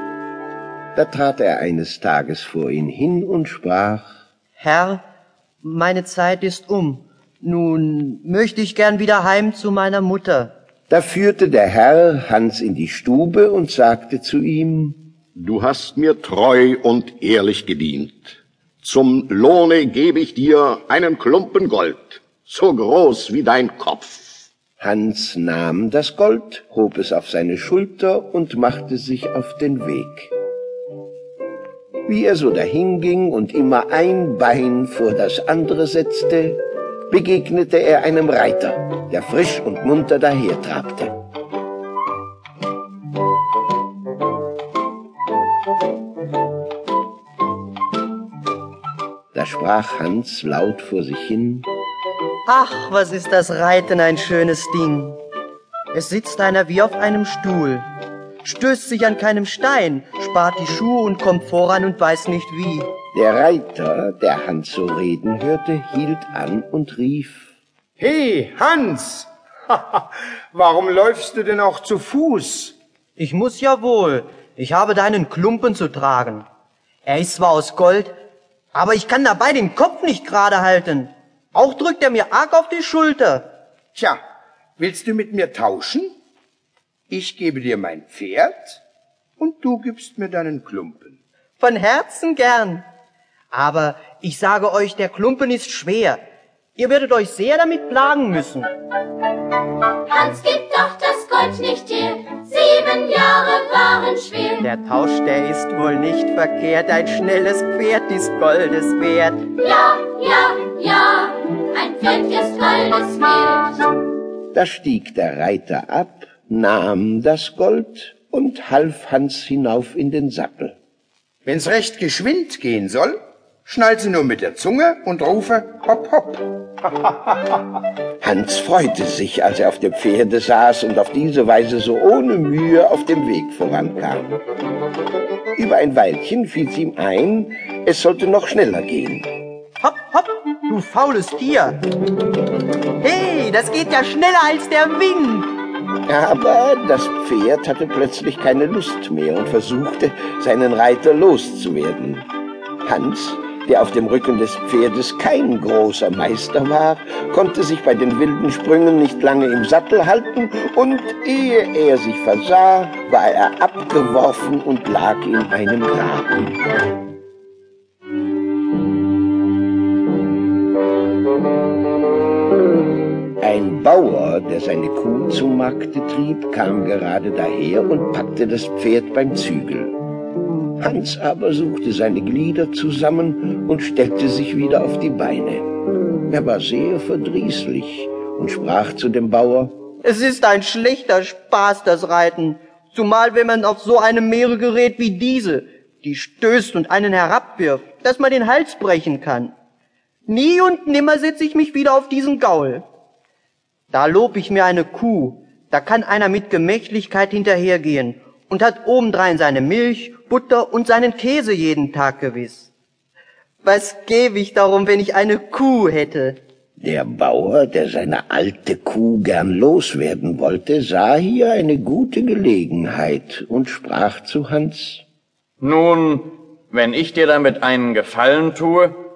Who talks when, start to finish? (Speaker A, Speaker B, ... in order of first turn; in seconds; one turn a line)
Speaker A: 0.9-4.1
Speaker B: 4.6-5.0
Speaker B: 5.6-10.5
Speaker A: 10.9-15.0
Speaker C: 15.3-24.4
Speaker A: 24.8-30.3
Speaker A: 32.1-41.1
Speaker A: 49.3-51.7
Speaker B: 52.5-55.2
Speaker B: 55.9-57.9
Speaker B: 58.4-62.9
Speaker A: 63.1-67.5
Speaker D: 68.0-72.7
Speaker B: 73.2-76.5
Speaker B: 77.1-78.2
Speaker B: 78.8-83.5
Speaker D: 84.8-86.1
Speaker D: 87.1-88.8
Speaker D: 89.4-91.2
Speaker B: 91.6-92.8
Speaker B: 93.5-96.2
Speaker B: 96.8-98.7
Speaker E: 100.1-104.7
Speaker B: 104.6-109.5
Speaker E: 109.5-113.9
Speaker A: 114.5-120.8
Speaker D: 121.5-127.5
Speaker A: 128.2-134.4
Speaker A: 135.6-139.3
Speaker B: 139.8-141.8
Speaker B: 143.0-145.6
Speaker A: 146.1-152.3
Speaker A: 152.8-166.6
Speaker A: 173.4-180.0
Speaker A: 180.8-185.7
Speaker A: 186.3-189.8
Speaker B: 190.0-199.5
Speaker B: 200.3-202.8
Speaker B: 203.9-212.7
Speaker B: 213.6-216.4
Speaker A: 216.8-225.0
Speaker F: 225.6-229.0